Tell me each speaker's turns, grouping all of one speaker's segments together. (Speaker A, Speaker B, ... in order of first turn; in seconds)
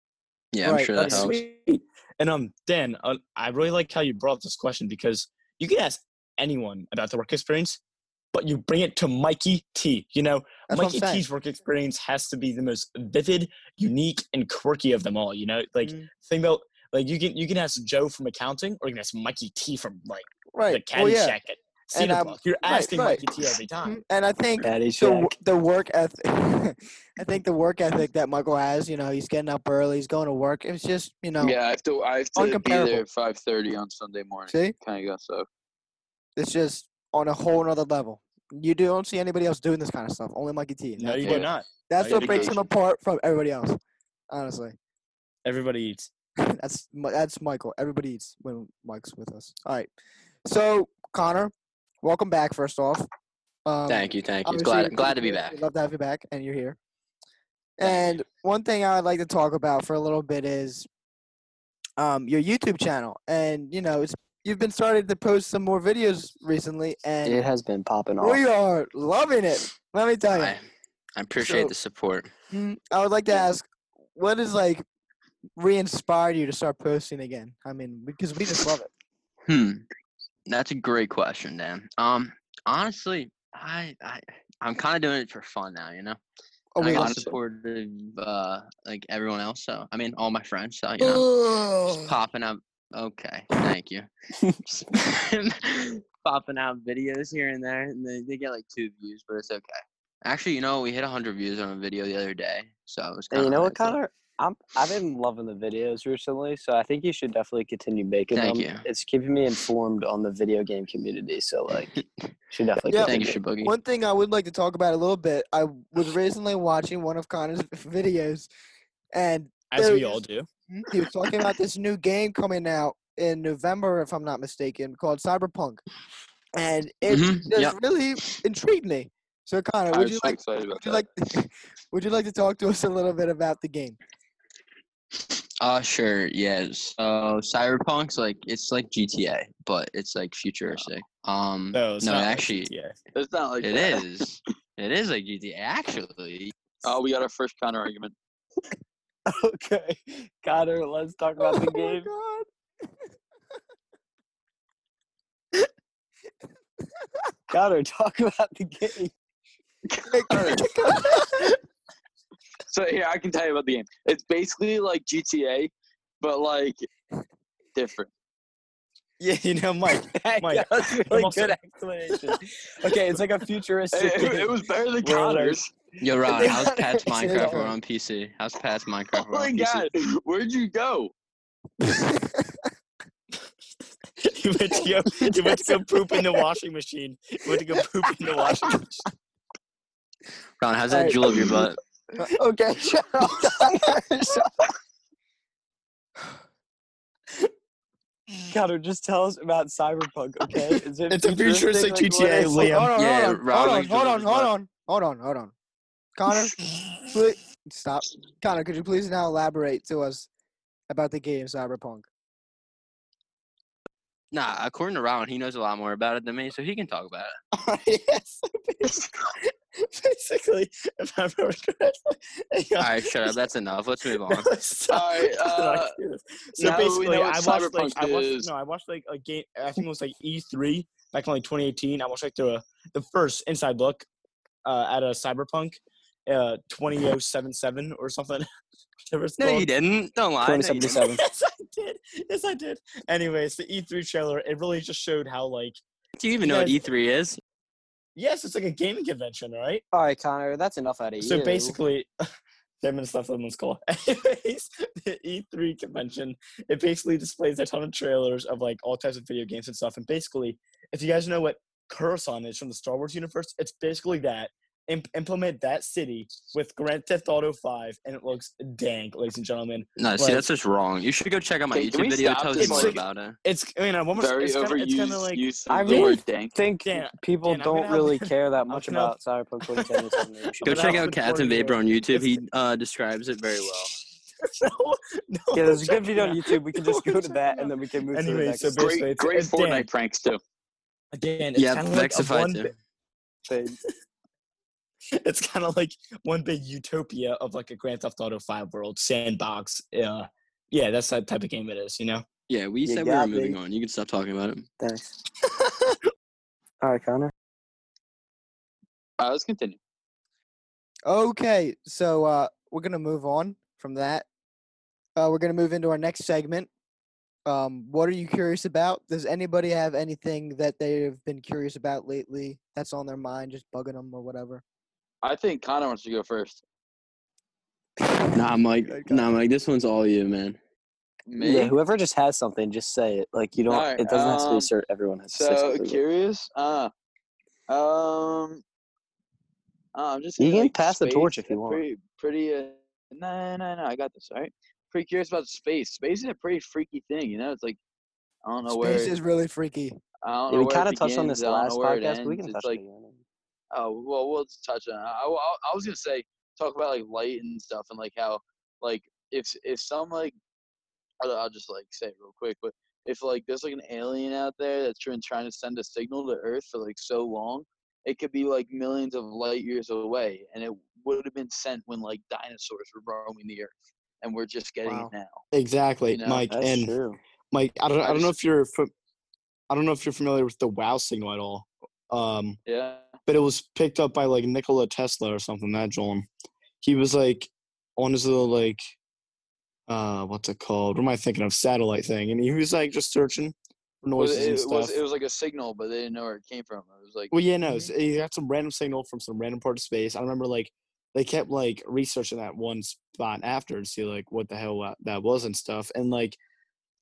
Speaker A: 0.5-1.4, 53.9-55.6, 57.8-58.2, 70.3-70.6, 71.2-72.3, 79.5-79.8, 80.5-86.2, 86.8-91.3, 92.0-94.1, 94.7-104.0, 108.3-108.8, 113.0-113.7, 127.0-128.4, 135.6-142.7, 143.6-146.5, 176.0-179.9, 190.6-191.8, 202.9-204.5, 214.3-217.3, 222.8-224.5, 239.4-241.0, 246.2-247.4, 270.0-273.4, 280.6-283.9, 291.6-292.7, 302.5-304.7, 328.0-330.6
Speaker B: 0.6-1.3, 10.7-11.2, 15.8-16.1, 20.5-21.4, 21.9-23.2, 23.8-31.6, 32.4-33.0, 36.4-43.8, 44.3-44.8, 46.4-49.9, 50.5-53.1, 53.6-56.8, 57.8-60.9, 62.0-67.4, 68.2-70.5, 71.4-71.7, 72.5-74.8, 75.6-78.9, 86.7-87.3, 91.0-92.2, 112.9-118.5, 119.1-125.8, 126.5-134.0, 151.4-152.5, 160.1-161.5, 176.3-177.6, 181.8-182.6, 188.4-188.8, 190.9-192.3, 193.4-194.0, 202.6-205.5, 206.2-210.3, 210.9-212.1, 311.1-314.2, 315.1-316.7, 317.4-324.6, 328.9-329.4, 348.7-350.0, 374.8-375.1, 397.6-397.9
Speaker C: 0.9-7.8, 8.3-24.0, 41.0-42.5, 45.4-46.1, 119.7-120.5, 141.7-142.9, 161.0-161.5, 169.2-171.6, 175.0-175.5, 184.2-189.1, 201.1-202.9, 217.5-223.4, 224.0-234.1, 234.6-238.4, 239.1-239.7, 241.1-245.8, 246.4-246.8, 248.2-249.8, 251.2-252.1, 252.8-270.4, 272.6-276.2, 276.8-279.2, 279.8-282.4, 284.4-289.9, 291.1-292.7, 295.1-302.2, 375.5-376.9, 377.5-378.9, 379.7-382.6, 383.3-386.3, 386.8-388.9, 389.9-395.0, 397.3-406.4
Speaker D: 24.6-25.3, 67.2-68.4, 103.3-112.0, 112.5-113.4, 149.2-152.1, 157.5-159.1, 170.1-174.5, 175.1-175.6, 176.3-177.7, 192.2-194.5, 198.5-202.8, 240.4-241.2, 249.9-251.8, 275.7-281.1, 285.5-288.9, 293.5-293.8, 302.8-303.6, 304.8-305.2, 306.8-307.3, 331.4-336.0, 340.4-341.8, 350.5-353.2, 376.5-377.2
Speaker E: 31.4-35.5, 42.1-42.6, 86.8-87.4, 129.9-131.1, 143.1-144.1, 146.8-148.1, 159.8-160.7, 162.7-166.9, 167.7-168.1, 173.9-175.7, 179.1-181.1, 224.9-225.9, 226.6-228.5, 271.7-273.0, 274.1-276.5, 288.8-290.4, 309.2-309.8, 325.2-326.6, 331.3-331.7, 333.7-334.7, 335.3-336.9, 337.7-338.6, 339.9-347.8, 348.4-349.1, 350.2-352.8, 353.7-360.4, 361.2-375.4, 376.1-376.5, 378.0-378.3, 382.6-383.2, 394.2-397.3